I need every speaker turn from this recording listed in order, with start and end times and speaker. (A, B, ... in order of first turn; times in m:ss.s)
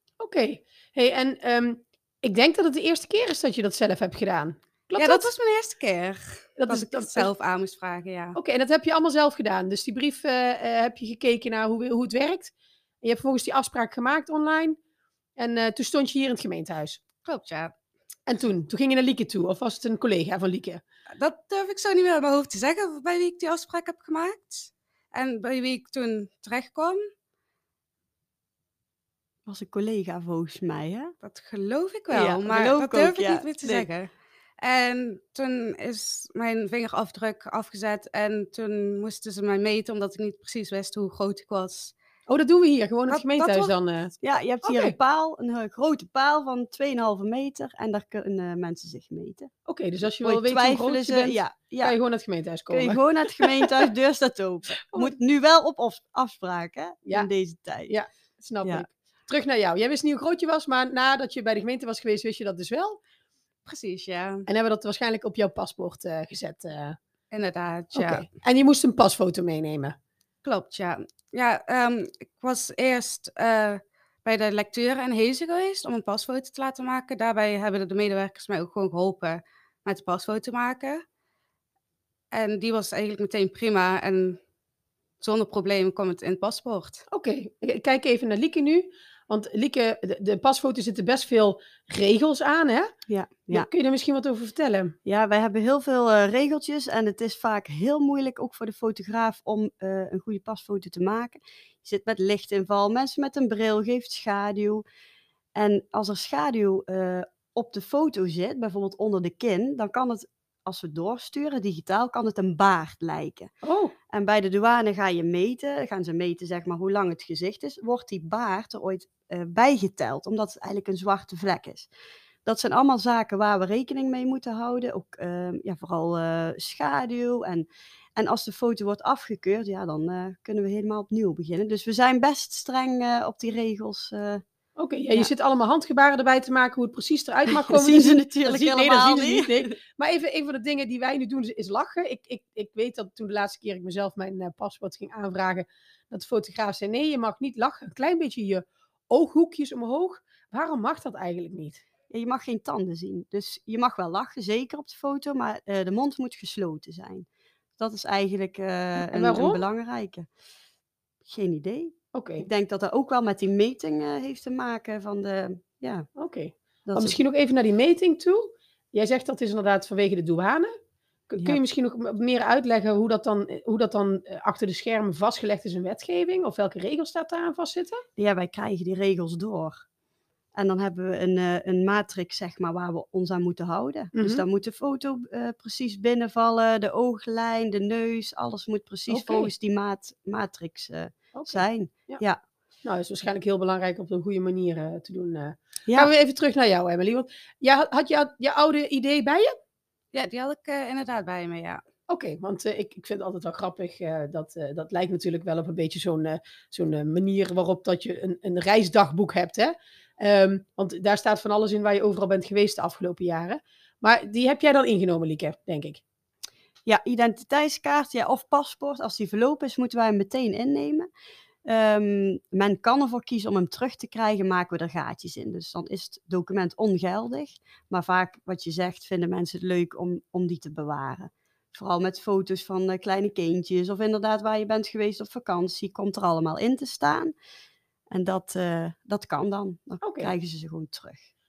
0:00.2-0:05.3 A
0:05.0-0:08.4 B
0:06.6-0:07.3 A
0:08.4-0:12.5 A
0:13.0-0:14.8 A
0:15.4-0:17.0 A
0:17.2-0:17.7 B
0:18.3-0:20.8 A
0:21.2-0:27.0 B
0:29.5-0:31.1 C
0:31.2-0:42.0 B
0:32.1-0:33.9 C
0:42.3-0:45.0 A
0:43.1-0:43.7 B
0:44.2-0:49.5 C
0:49.7-0:53.9 A
0:50.2-0:52.0 C
0:52.7-0:58.0 C
0:57.9-1:03.0 A
1:03.6-1:04.4 B
1:04.5-1:07.0 A
1:07.3-1:08.3 B
1:07.9-1:10.0 A
1:10.4-1:21.0 B
1:22.3-1:24.4 B
1:25.2-1:27.0 B
1:27.1-1:32.9 A
1:33.1-1:33.7 C
1:33.5-1:35.0 A
1:35.1-1:44.8 C
1:45.6-1:53.5 C
1:53.6-1:53.9 A
1:54.1-2:01.9 C
2:02.4-2:14.4 C
2:14.8-2:31.8 A
2:17.5-2:19.8 C
2:32.1-2:37.3 C
2:37.8-2:40.3 C
2:39.0-2:39.6 A
2:41.3-2:46.1 C
2:42.1-2:42.5 A
2:46.2-2:50.7 A
2:46.9-2:47.2 C
2:51.3-2:58.0 A
2:58.2-2:59.8 C
3:00.6-3:12.4 C
3:04.2-3:04.4 A
3:09.1-3:09.5 A
3:11.3-3:12.2 A
3:12.8-3:19.5 A
3:20.1-3:21.8 B
3:22.1-3:36.0 A
3:36.9-3:41.1 C
3:41.7-3:57.3 C
3:58.1-4:01.3 C
4:00.0-4:00.3 A